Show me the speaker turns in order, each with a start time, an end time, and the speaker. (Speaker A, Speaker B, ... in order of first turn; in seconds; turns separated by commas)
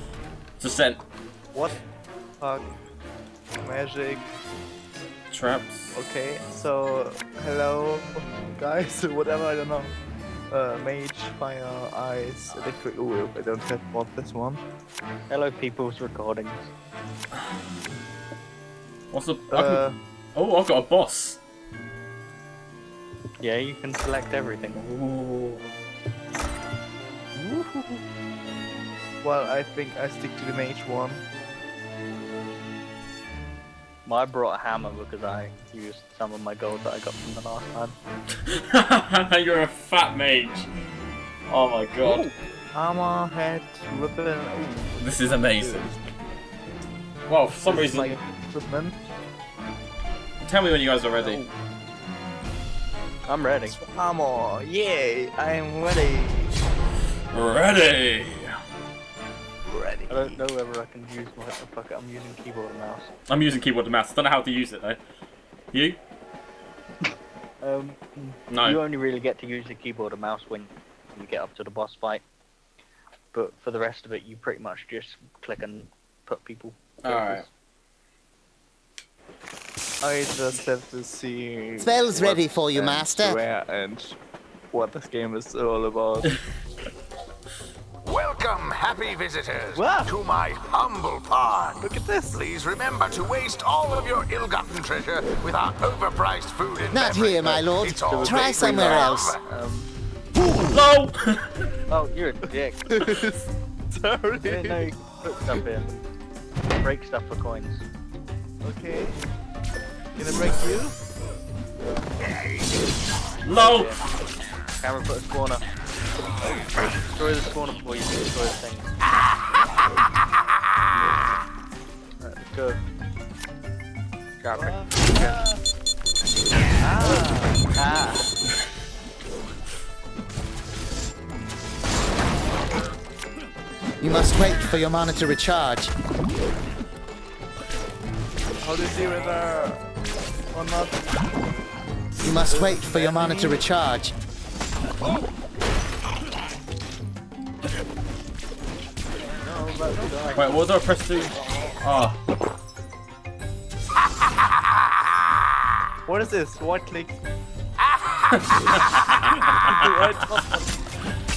Speaker A: 0.6-1.0, Speaker B: 1.5-1.8, Speaker B: 2.4-2.7, Speaker B: 3.6-4.3, Speaker A: 5.3-6.0, Speaker B: 5.9-10.0, Speaker B: 10.5-14.6, Speaker C: 15.3-16.7, Speaker A: 19.1-19.8, Speaker B: 19.5-20.0, Speaker A: 20.4-21.4, Speaker C: 23.4-24.8, Speaker A: 24.8-25.6, Speaker B: 27.4-28.0, Speaker B: 29.2-31.2, Speaker C: 34.0-38.0, Speaker A: 38.5-40.7, Speaker A: 41.5-42.3, Speaker B: 42.0-46.0, Speaker A: 45.0-45.9, Speaker A: 47.3-48.2, Speaker B: 47.6-49.0, Speaker A: 50.5-51.4, Speaker C: 51.2-51.5, Speaker C: 53.3-53.8, Speaker B: 53.8-56.6, Speaker A: 57.3-58.6, Speaker B: 59.7-60.4, Speaker C: 60.1-63.1, Speaker A: 63.3-65.0, Speaker A: 65.7-66.0, Speaker C: 67.0-72.2, Speaker A: 68.5-68.8, Speaker C: 73.3-77.5, Speaker A: 77.0-77.5, Speaker B: 80.0-84.2, Speaker D: 81.8-83.4, Speaker B: 84.7-86.4, Speaker E: 88.0-99.4, Speaker B: 89.8-90.1, Speaker B: 91.8-92.5, Speaker D: 96.9-99.3, Speaker C: 98.1-99.9, Speaker A: 100.6-101.5, Speaker C: 101.9-102.9, Speaker B: 102.9-104.9, Speaker C: 104.4-106.0, Speaker C: 106.8-107.8, Speaker B: 108.6-109.2, Speaker B: 110.2-111.0, Speaker A: 113.5-113.9, Speaker C: 113.6-114.0, Speaker C: 114.8-115.6, Speaker C: 117.1-119.0, Speaker C: 122.2-122.8, Speaker C: 124.4-125.4, Speaker B: 124.5-125.6, Speaker B: 126.8-127.7, Speaker C: 127.8-128.3, Speaker D: 134.0-135.9, Speaker B: 138.6-139.8, Speaker B: 140.5-141.1, Speaker D: 142.2-144.1, Speaker B: 142.5-143.6, Speaker C: 149.3-150.6, Speaker A: 150.3-152.2, Speaker B: 156.1-157.1, Speaker A: 158.4-160.4, Speaker B: 159.5-160.7